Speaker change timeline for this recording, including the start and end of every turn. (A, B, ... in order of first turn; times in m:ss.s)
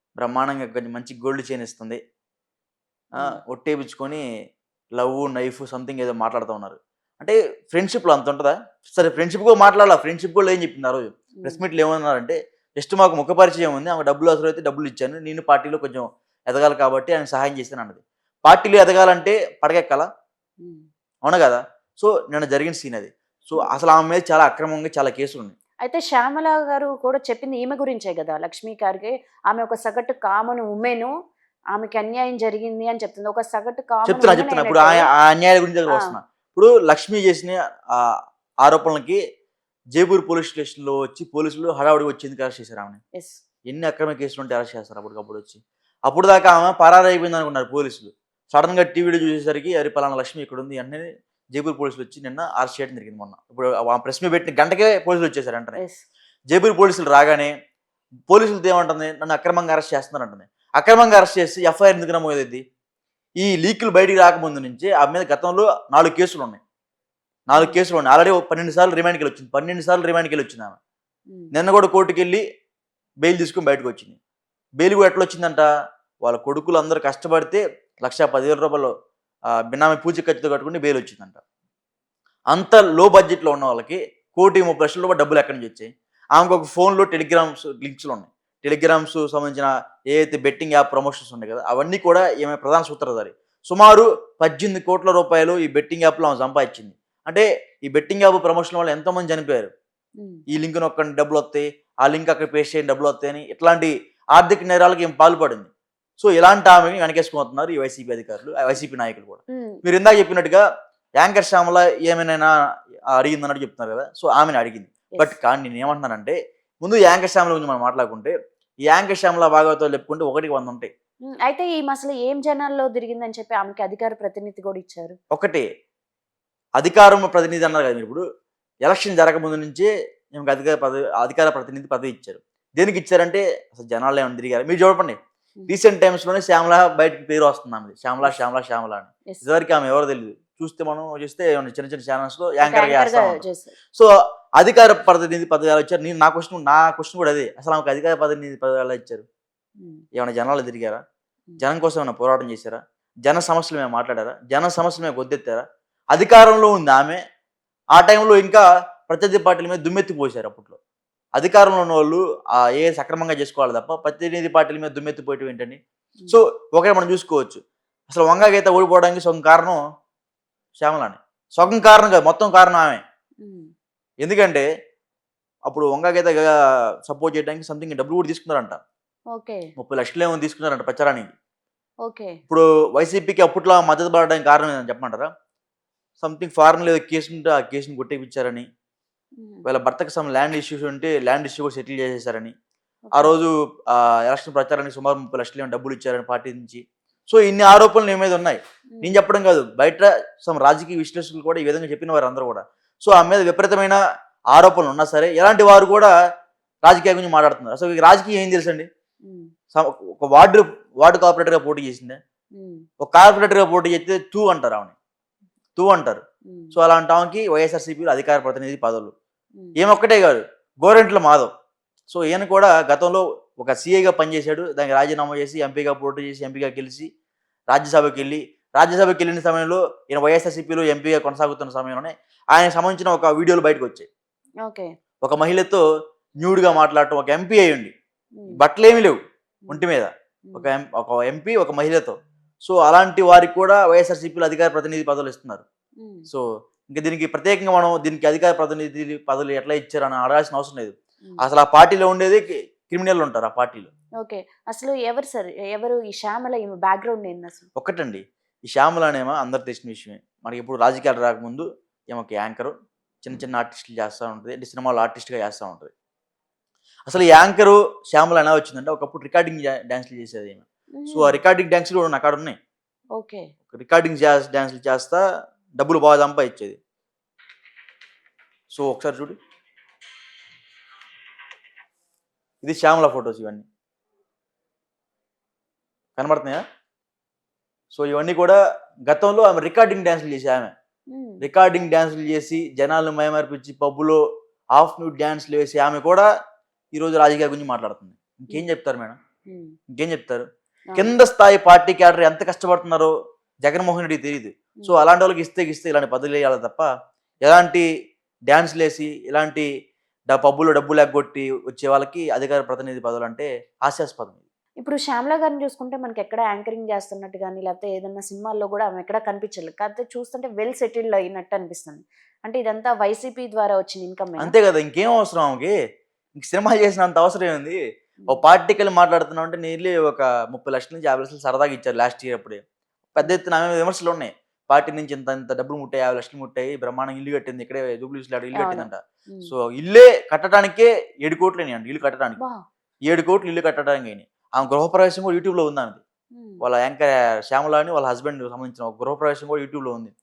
0:00.2-0:02.0 A
0:03.2-0:04.2 A
0:04.9-0:20.1 A
0:21.2-0:25.6 A
0:25.8-0:31.1 B
0:31.7-0:35.1 B
0:34.0-0:39.2 A
0:39.9-0:43.0 A
0:43.1-0:43.4 B
0:43.7-0:55.8 A
0:55.8-0:56.0 B
0:56.5-0:57.5 A
0:58.3-1:02.6 A
1:03.4-1:06.6 A
1:07.5-1:10.8 A
1:11.5-1:12.4 A
1:13.2-1:14.2 A
1:14.8-1:15.7 A
1:16.2-1:18.9 A
1:19.7-1:21.4 A
1:22.5-1:39.7 A
1:40.2-1:40.4 B
1:40.5-1:50.6 A
1:49.5-1:49.8 B
1:51.2-1:52.5 A
1:53.1-1:58.3 A
1:58.9-2:00.9 A
2:01.4-2:05.2 B
2:05.3-2:05.6 A
2:06.8-2:08.2 A
2:08.8-2:15.2 A
2:15.7-2:29.3 A
2:22.6-2:23.7 B
2:30.2-2:31.0 A
2:31.6-2:37.2 A
2:37.9-2:40.8 A
2:41.3-2:49.8 A
2:50.8-2:53.0 A
2:53.4-2:53.7 B
2:54.2-2:54.7 A
2:55.7-2:56.5 A
2:57.0-2:58.8 A
2:59.3-2:59.7 B
2:59.8-3:01.3 A
3:02.0-3:02.4 B
3:02.5-3:05.3 A
3:06.2-3:08.7 A
3:09.4-3:09.7 B
3:09.6-3:12.5 A
3:13.1-3:13.3 B
3:13.1-3:24.0 A
3:24.5-3:26.1 A
3:26.8-3:28.9 A
3:29.7-3:32.2 A
3:32.5-3:32.8 B
3:33.0-3:35.0 A
3:35.8-3:36.2 A
3:36.5-3:36.8 B
3:36.7-3:39.1 A
3:39.8-3:41.5 A
3:42.1-3:47.1 A
3:47.7-3:54.1 A
3:54.6-3:54.9 B
3:55.2-3:55.8 A
3:56.4-3:57.9 A
3:58.5-4:05.6 A
4:06.0-4:06.3 B
4:06.3-4:13.9 A
4:14.2-4:17.7 B
4:17.8-4:22.7 A
4:23.2-4:25.9 A
4:27.1-4:32.6 A
4:31.0-4:31.4 B
4:33.2-4:33.5 B
4:33.7-4:35.2 A
4:35.8-4:36.8 A
4:38.7-4:39.4 A
4:42.6-4:43.6 A
4:46.2-4:46.6 A
4:47.9-4:50.7 A
4:51.1-4:51.4 B
4:51.4-4:54.2 A
4:54.7-4:56.3 A
4:56.9-4:59.2 A
4:59.5-4:59.7 B
4:59.9-5:00.4 A
5:01.0-5:03.1 A
5:03.6-5:06.9 A
5:07.4-5:07.9 A
5:08.5-5:09.7 A
5:10.3-5:14.4 A
5:14.8-5:24.5 B
5:24.4-5:25.7 A
5:26.4-5:27.8 A
5:28.3-5:32.6 A
5:33.1-5:42.4 A
5:38.6-5:39.5 B
5:43.1-5:46.0 A
5:46.4-5:46.6 B
5:46.6-5:50.1 A